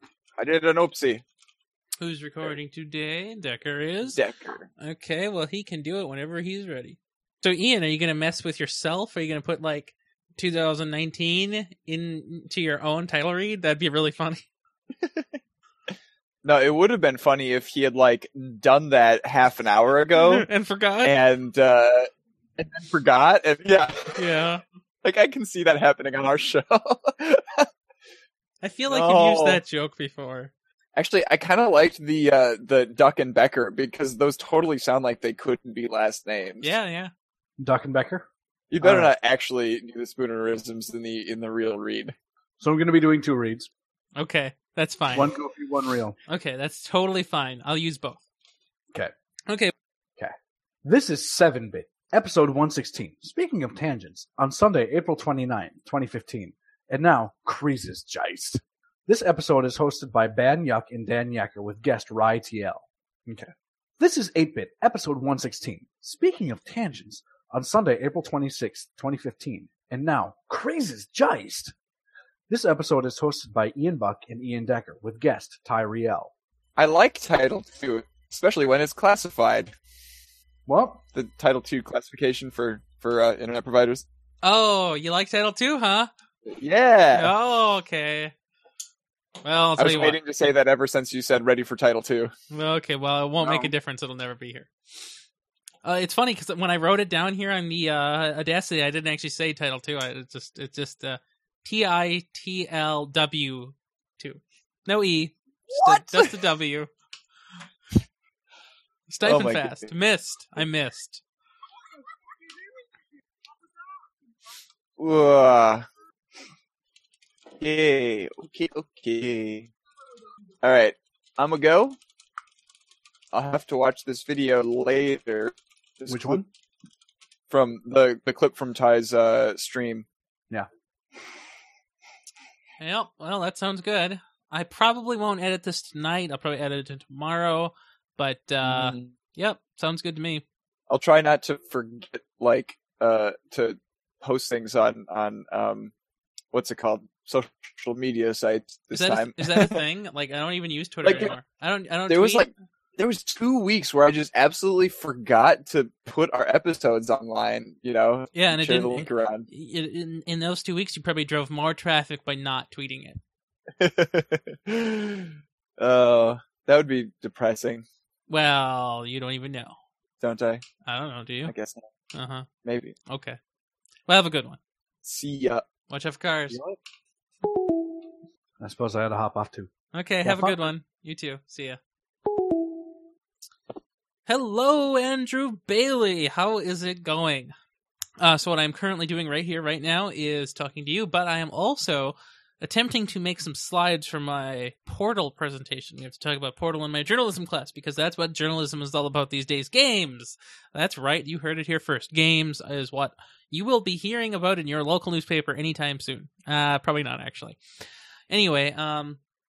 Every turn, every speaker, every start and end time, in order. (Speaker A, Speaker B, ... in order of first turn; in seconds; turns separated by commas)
Speaker A: 0.4-1.2, Speaker B: 2.0-4.2, Speaker A: 4.1-4.7, Speaker B: 4.8-14.4, Speaker A: 15.0-15.3, Speaker A: 16.4-20.5, Speaker B: 20.2-21.1, Speaker A: 21.0-24.2, Speaker B: 24.1-24.6, Speaker A: 25.0-27.7, Speaker B: 28.6-30.5, Speaker A: 28.9-29.6, Speaker A: 30.9-36.7, Speaker B: 36.6-37.1, Speaker C: 37.6-38.2, Speaker A: 38.7-42.1, Speaker C: 38.8-39.1, Speaker C: 42.6-43.7, Speaker B: 44.1-45.4, Speaker C: 45.1-46.2, Speaker B: 46.3-48.2, Speaker B: 49.5-49.7, Speaker C: 50.2-71.7, Speaker C: 72.5-76.3, Speaker A: 76.8-79.7, Speaker C: 80.7-81.0, Speaker A: 81.1-84.0, Speaker B: 84.4-86.1, Speaker A: 86.5-87.3, Speaker B: 87.1-88.3, Speaker B: 89.4-90.2, Speaker A: 89.8-92.3, Speaker B: 92.5-94.7, Speaker A: 93.4-93.7, Speaker B: 95.8-106.9, Speaker A: 105.7-106.4, Speaker B: 109.1-111.2, Speaker A: 109.2-109.9, Speaker A: 115.0-115.8, Speaker A: 117.6-119.7, Speaker A: 120.6-122.0, Speaker A: 123.3-126.5, Speaker C: 126.1-126.5, Speaker A: 127.5-130.1, Speaker B: 132.8-140.4, Speaker A: 138.7-139.0, Speaker A: 140.9-145.9, Speaker A: 146.5-149.8, Speaker B: 148.9-152.5, Speaker A: 151.0-151.3, Speaker A: 152.1-159.5, Speaker B: 158.3-163.2, Speaker A: 163.8-167.8, Speaker B: 168.3-169.8, Speaker A: 170.2-170.6, Speaker B: 170.8-171.5, Speaker A: 171.4-171.8, Speaker B: 172.1-172.5, Speaker A: 172.6-172.9, Speaker B: 173.1-173.4, Speaker B: 174.1-174.6, Speaker A: 175.0-175.6, Speaker B: 175.9-176.6, Speaker C: 176.5-176.8, Speaker C: 178.6-179.7, Speaker B: 179.9-181.8, Speaker C: 180.2-180.7, Speaker B: 184.2-187.5, Speaker B: 188.2-209.2